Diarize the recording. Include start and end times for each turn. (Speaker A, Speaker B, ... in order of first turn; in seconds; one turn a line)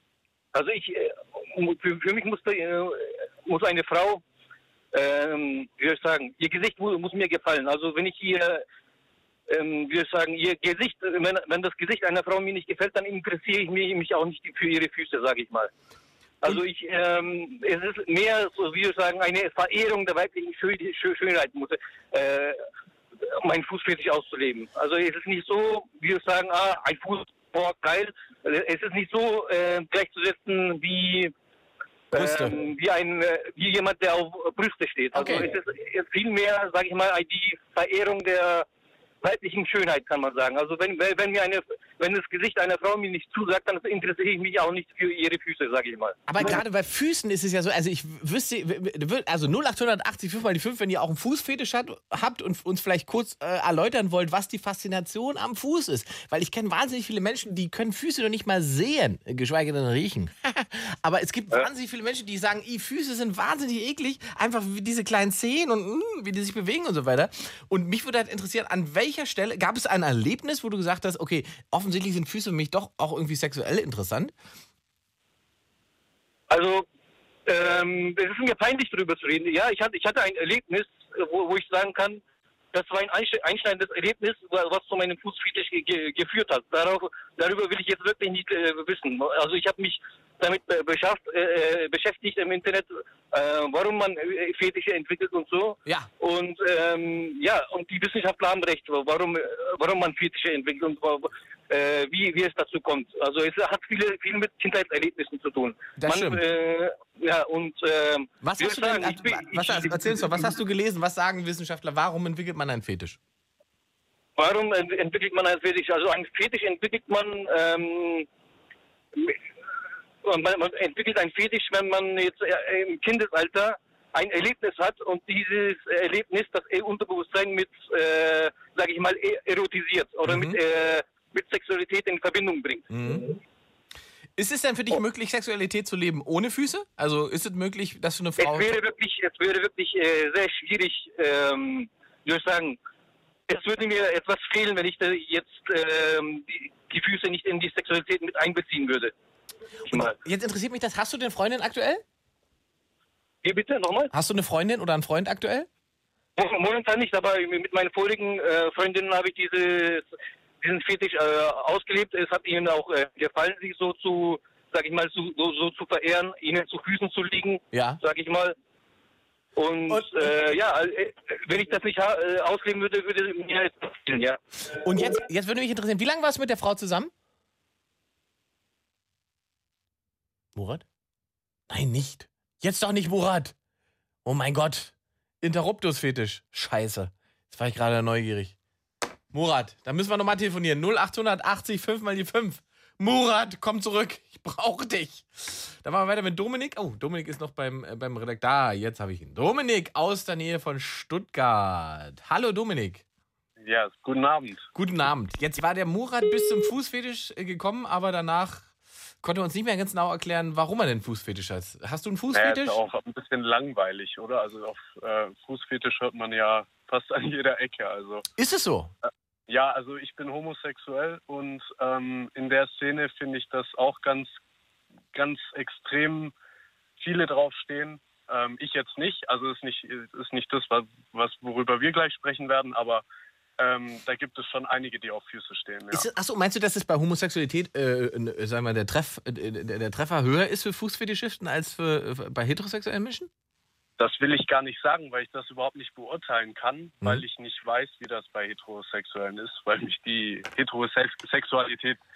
Speaker A: 0.5-4.2
Speaker A: 4.9-8.6
Speaker A: 9.5-15.7
Speaker A: 16.4-22.6
Speaker A: 23.2-31.3
Speaker A: 32.1-38.6
Speaker B: 32.1-32.6
Speaker B: 35.1-35.5
Speaker A: 39.2-46.5
Speaker B: 46.3-74.3
Speaker A: 76.5-76.8
Speaker A: 77.5-82.2
Speaker A: 82.7-110.2
Speaker B: 106.0-106.4
Speaker B: 108.4-113.2
Speaker A: 114.4-118.3
Speaker A: 120.2-133.3
Speaker B: 130.2-130.6
Speaker B: 132.9-133.3
Speaker B: 134.4-138.8
Speaker A: 138.4-142.8
Speaker A: 143.5-149.1
Speaker B: 149.9-152.0
Speaker A: 153.4-154.1
Speaker B: 154.1-155.7
Speaker A: 156.4-160.1
Speaker A: 160.6-168.6
Speaker B: 167.7-168.0
Speaker A: 169.6-174.4
Speaker B: 174.8-177.1
Speaker B: 180.6-180.8
Speaker B: 181.7-183.6
Speaker B: 184.2-188.5
Speaker B: 189.3-203.0
Speaker C: 203.6-204.7
Speaker B: 204.7-208.7
Speaker B: 209.2-212.8
Speaker C: 212.3-218.2
Speaker B: 218.4-218.9
Speaker C: 219.5-224.3
Speaker C: 225.1-226.3
Speaker C: 227.0-233.1
Speaker C: 233.6-236.1
Speaker B: 235.9-243.3
Speaker C: 244.0-252.0